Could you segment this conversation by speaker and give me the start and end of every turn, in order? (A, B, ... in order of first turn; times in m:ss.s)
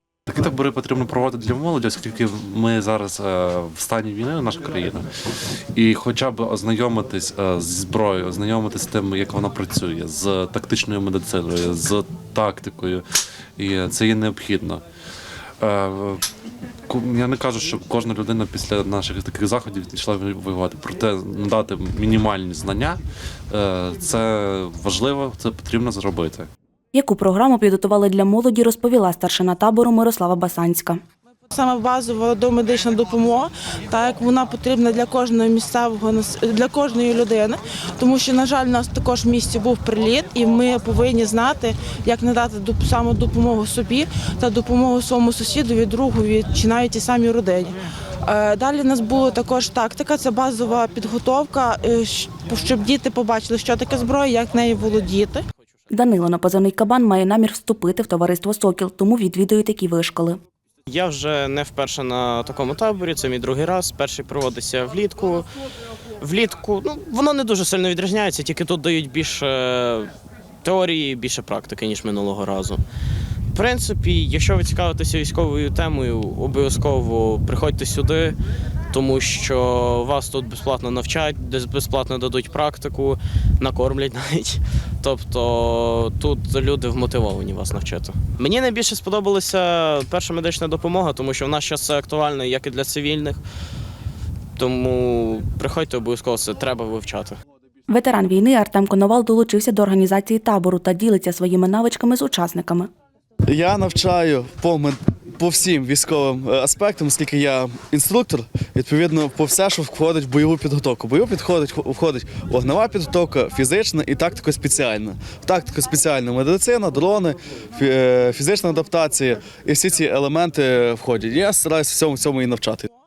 0:00.3-0:05.0 A
0:05.8-0:13.0 A
0:13.6-0:14.8 A
0:15.6-0:16.2 A
0:16.9-0:23.0 A
0:23.5-0:26.5 A
0:26.9-0:31.0 B
0:31.5-0:55.4 C
0:55.9-1:00.4 B
1:00.9-1:05.5 D
1:06.2-1:12.8 D
1:13.5-1:18.4 D
1:18.9-1:33.4 D
1:34.6-1:37.4 D
1:37.9-1:42.9 B
1:43.5-2:02.9 E